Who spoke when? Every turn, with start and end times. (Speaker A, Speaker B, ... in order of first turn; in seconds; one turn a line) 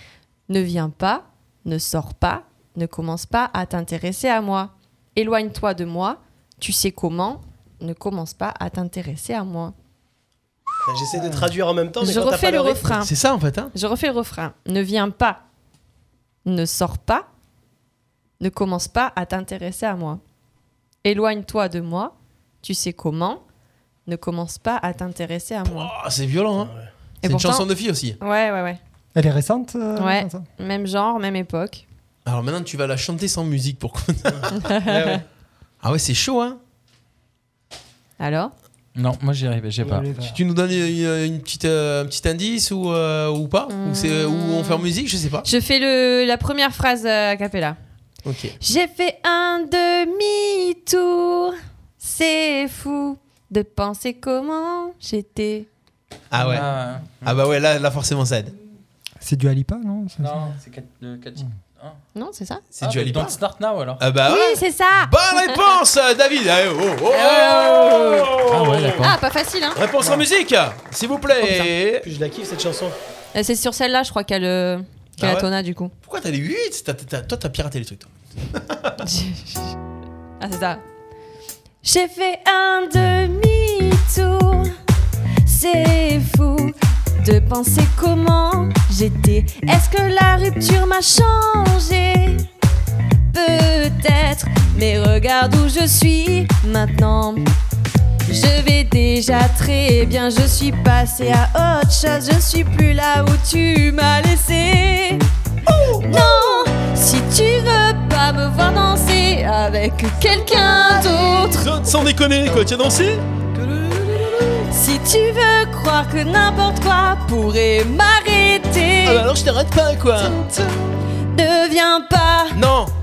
Speaker A: 0.5-9.7
Speaker B: 10.8-13.0
Speaker A: 12.0-13.1
Speaker C: 13.0-13.7
Speaker A: 13.7-15.4
Speaker A: 16.4-17.3
Speaker A: 18.4-20.2
Speaker A: 21.0-23.4
Speaker A: 24.1-25.9
Speaker C: 25.6-26.7
Speaker B: 26.6-26.9
Speaker A: 27.2-27.6
Speaker C: 27.2-28.2
Speaker A: 28.2-28.8
Speaker D: 29.1-30.4
Speaker A: 29.9-31.8
Speaker C: 32.2-34.6
Speaker B: 34.3-35.2
Speaker A: 34.6-35.2
Speaker C: 35.8-36.6
Speaker A: 38.2-38.5
Speaker E: 38.9-40.1
Speaker D: 39.9-40.4
Speaker C: 40.2-45.5
Speaker A: 43.7-44.9
Speaker A: 45.4-47.8
Speaker C: 48.2-48.6
Speaker A: 48.6-55.7
Speaker C: 56.3-56.7
Speaker E: 56.4-57.4
Speaker C: 57.2-58.5
Speaker D: 59.2-60.5
Speaker E: 60.2-62.0
Speaker A: 62.1-62.6
Speaker C: 62.8-63.4
Speaker E: 62.8-64.0
Speaker C: 64.0-69.1
Speaker A: 64.2-65.5
Speaker A: 67.1-68.3
Speaker E: 68.4-69.2
Speaker A: 69.0-69.8
Speaker C: 69.7-72.0
Speaker A: 71.4-71.7
Speaker B: 72.0-72.9
Speaker A: 73.3-75.9
Speaker C: 75.2-75.5
Speaker C: 76.0-79.0
Speaker A: 79.0-79.8
Speaker A: 80.4-80.8
Speaker A: 81.8-84.7
Speaker A: 85.4-92.5
Speaker A: 93.3-97.5
Speaker A: 98.3-105.2
Speaker C: 105.7-106.7
Speaker A: 106.0-111.7
Speaker C: 111.5-113.2
Speaker B: 113.6-114.5
Speaker A: 114.7-119.2
Speaker C: 119.0-120.4
Speaker A: 120.2-120.6
Speaker A: 121.3-122.6
Speaker C: 122.5-122.9